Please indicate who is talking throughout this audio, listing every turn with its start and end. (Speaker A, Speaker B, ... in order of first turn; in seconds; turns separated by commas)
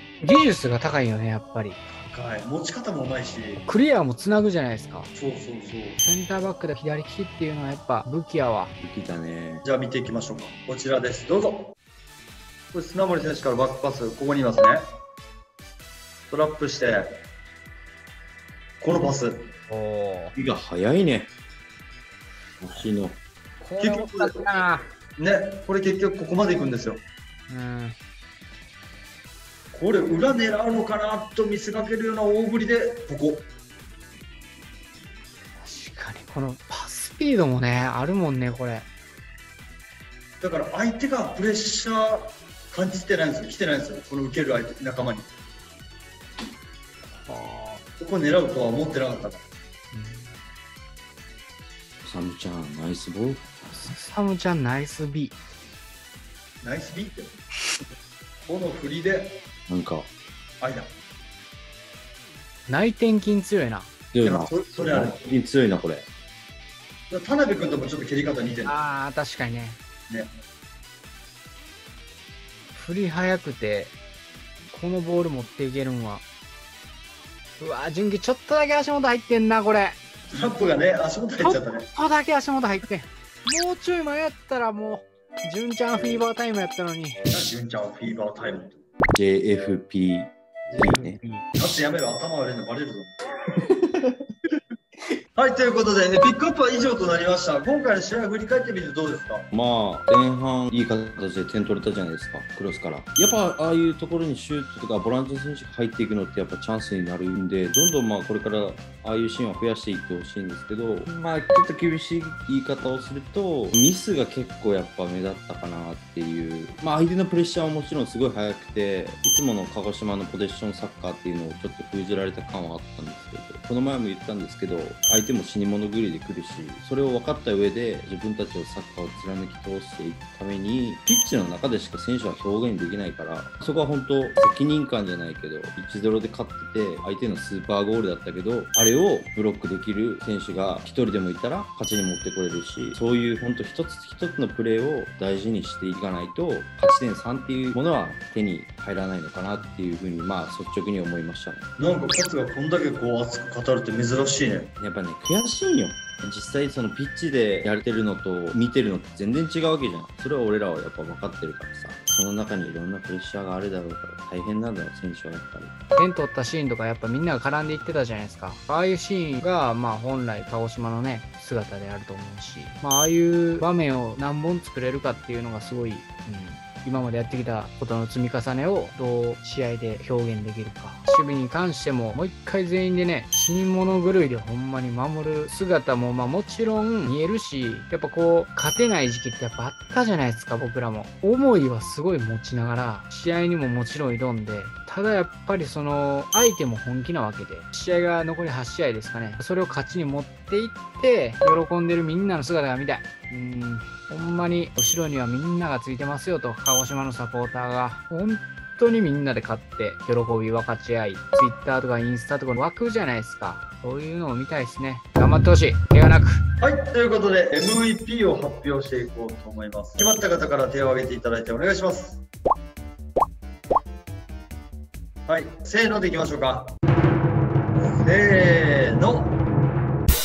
Speaker A: 0.2-1.8, Speaker B: 1.9-3.7, Speaker A: 3.6-5.1, Speaker B: 5.1-6.0, Speaker A: 6.0-8.7, Speaker C: 8.8-9.6, Speaker B: 9.6-11.7, Speaker B: 12.7-14.9, Speaker B: 16.3-17.2, Speaker B: 18.8-19.5, Speaker A: 19.7-20.3, Speaker C: 20.3-21.3, Speaker C: 22.6-23.2, Speaker A: 23.6-24.9, Speaker B: 23.8-24.6, Speaker B: 25.2-27.0, Speaker A: 27.5-27.9, Speaker B: 29.7-33.5, Speaker A: 35.6-38.9, Speaker B: 40.4-45.3, Speaker A: 47.1-47.8, Speaker B: 48.0-49.4, Speaker A: 49.9-50.4, Speaker C: 52.0-53.5, Speaker A: 53.7-55.3, Speaker B: 56.6-57.3, Speaker B: 58.4-59.4, Speaker C: 59.7-60.1, Speaker B: 60.6-60.9, Speaker A: 62.7-63.9, Speaker C: 64.1-66.1, Speaker B: 64.2-65.2, Speaker B: 67.1-68.8, Speaker A: 68.6-69.8, Speaker A: 72.7-73.9, Speaker A: 74.7-76.2, Speaker A: 77.6-80.0, Speaker B: 80.3-81.9, Speaker A: 81.4-87.2, Speaker B: 87.3-88.8, Speaker C: 89.1-91.2, Speaker A: 90.7-91.4, Speaker B: 91.5-93.1, Speaker C: 93.7-94.2, Speaker B: 95.3-99.5, Speaker C: 99.5-151.7, Speaker B: 151.8-154.7, Speaker C: 154.8-165.7, Speaker A: 165.9-216.4, Speaker B: 216.6-222.2, Speaker B: 225.3-226.7, Speaker B: 227.8-229.4